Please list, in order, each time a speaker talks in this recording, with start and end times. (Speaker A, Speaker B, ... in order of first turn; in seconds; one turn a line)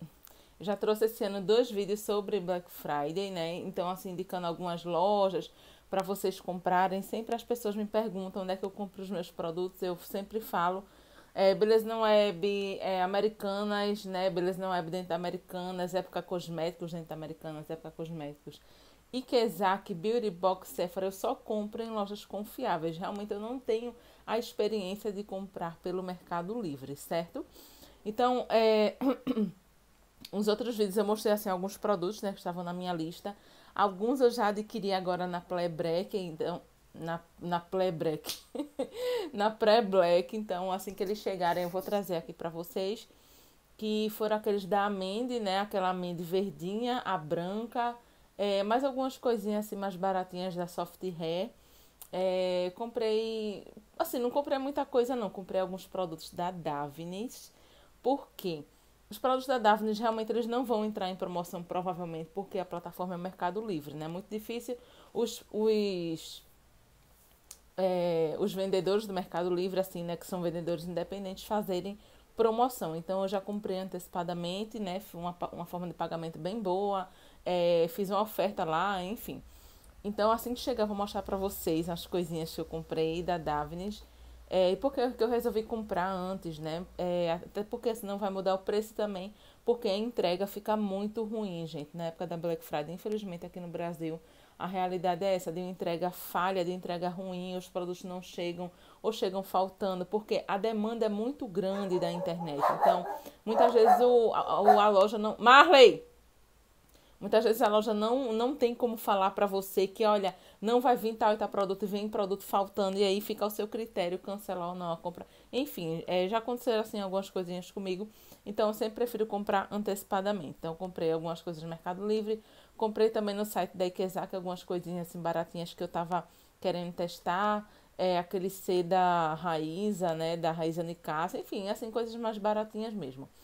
Speaker A: 0.6-27.4
Speaker A: 28.0-29.5
Speaker A: 30.3-43.1
Speaker A: 43.8-51.5
Speaker A: 52.1-66.4
Speaker A: 67.8-79.4
Speaker A: 80.0-106.0
Speaker A: 107.2-133.3